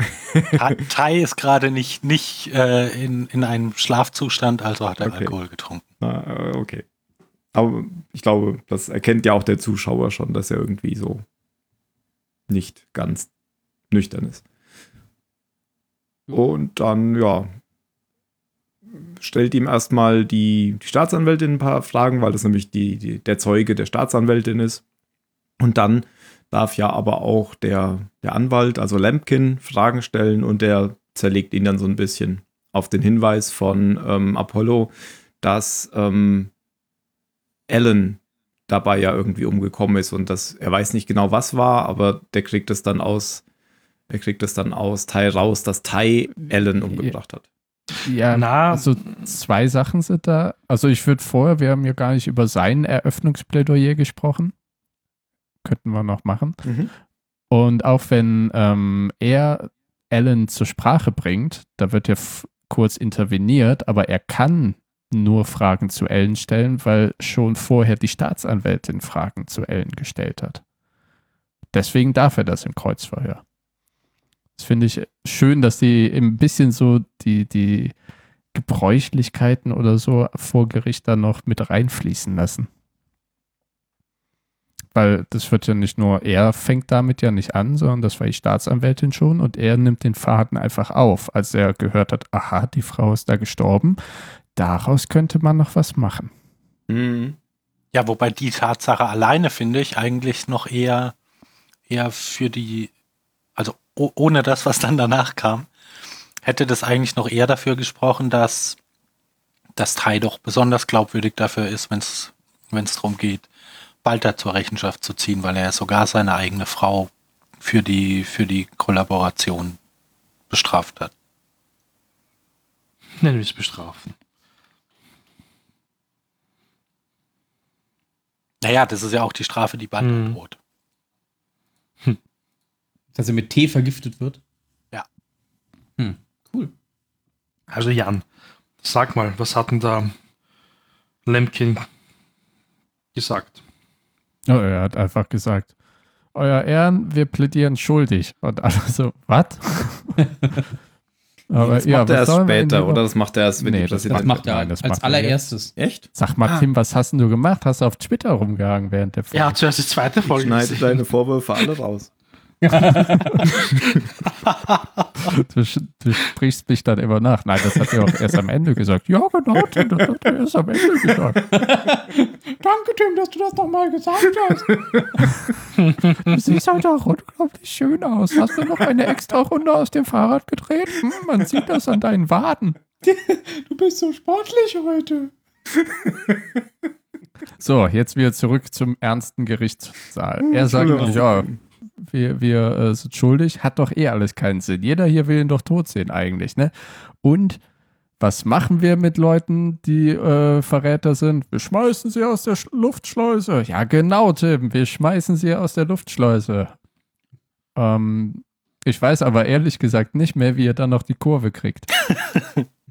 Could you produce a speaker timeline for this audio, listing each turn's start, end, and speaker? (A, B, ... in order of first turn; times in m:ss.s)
0:00.3-0:00.7 A
0:00.5-0:05.8 B
0:05.0-0:05.4 A
0:06.0-0:06.8 A
0:07.5-0:11.2 A
0:12.5-0:13.3 A
0:13.9-0:14.4 A
0:16.3-0:17.5 A
0:19.0-0:24.8 A
0:25.6-0:36.5 A
0:37.7-0:43.4 A
0:44.1-0:47.4 A
0:48.0-0:54.5 C
0:48.3-0:49.3 D
0:55.6-0:56.6 C
0:56.6-0:56.9 A
0:57.5-1:10.6 C
1:11.7-1:13.4 C
1:14.6-1:18.0 C
1:18.5-1:22.7 C
1:24.9-1:34.0 C
1:34.6-1:36.3 C
1:36.9-1:37.4 A
1:37.9-1:41.1 B
1:41.9-1:42.9 B
1:43.6-1:45.7 B
1:46.4-1:48.8 B
1:49.8-1:53.5 B
1:54.0-1:57.1 B
1:57.6-1:59.8 B
2:00.5-2:01.1 B
2:03.2-2:04.1 D
2:08.6-2:10.6 B
2:10.0-2:10.4 D
2:13.2-2:14.4 E
2:16.0-2:16.7 E
2:17.7-2:18.2 D
2:18.8-2:20.1 D
2:21.3-2:21.9 D
2:23.2-2:23.6 D
2:24.5-2:25.7 C
2:26.3-2:30.4 C
2:31.5-2:33.0 C
2:31.6-2:34.5 A
2:33.6-2:35.4 C
2:34.1-2:35.7 E
2:35.8-2:36.1 A
2:36.1-2:39.6 C
2:39.3-2:41.0 D
2:40.3-2:42.1 A
2:42.6-2:43.5 E
2:45.2-2:51.6 C
2:51.5-2:54.7 E
2:55.2-2:55.6 C
2:55.8-2:56.1 D
2:56.2-3:02.8 C
3:03.0-3:05.3 E
3:05.9-3:06.4 A
3:07.6-3:17.6 C
3:10.4-3:11.6 A
3:10.8-3:11.1 E
3:18.2-3:26.7 C
3:27.8-3:31.9 C